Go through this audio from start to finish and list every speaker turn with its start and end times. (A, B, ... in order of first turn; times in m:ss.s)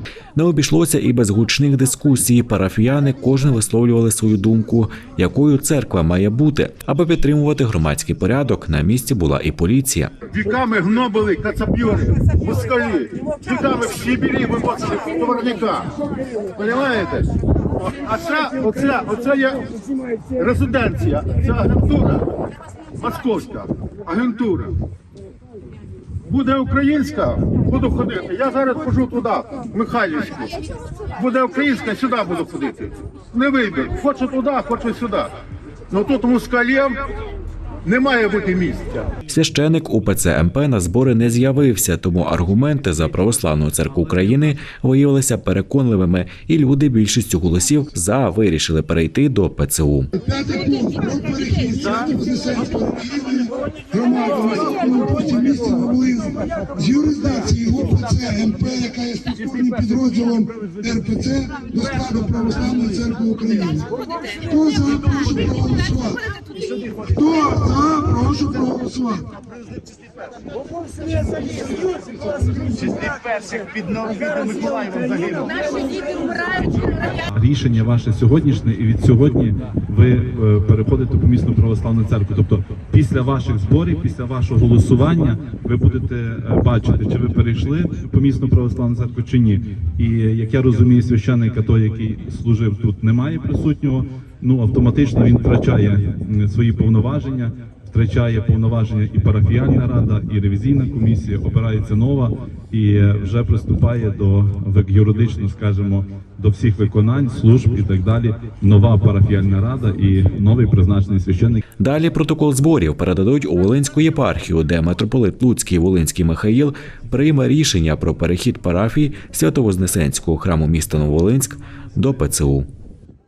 0:00.3-0:10.1 A
0:10.3-0:15.9 B
0:16.6-0:17.3 B
0:17.8-0:19.6 B
0:20.4-0:22.2 B
0:23.0-0:24.7 B
0:26.2-0:30.5 B
0:31.1-0:35.3 B
0:35.9-0:37.0 B
0:37.8-0:38.9 B
0:39.3-0:50.1 A
0:50.1-1:03.9 C
1:04.4-1:06.2 C
1:07.0-1:09.2 C
1:11.1-1:11.7 C
1:12.2-1:13.1 C
1:14.4-1:14.8 C
1:17.3-1:51.6 D
1:51.8-2:02.7 A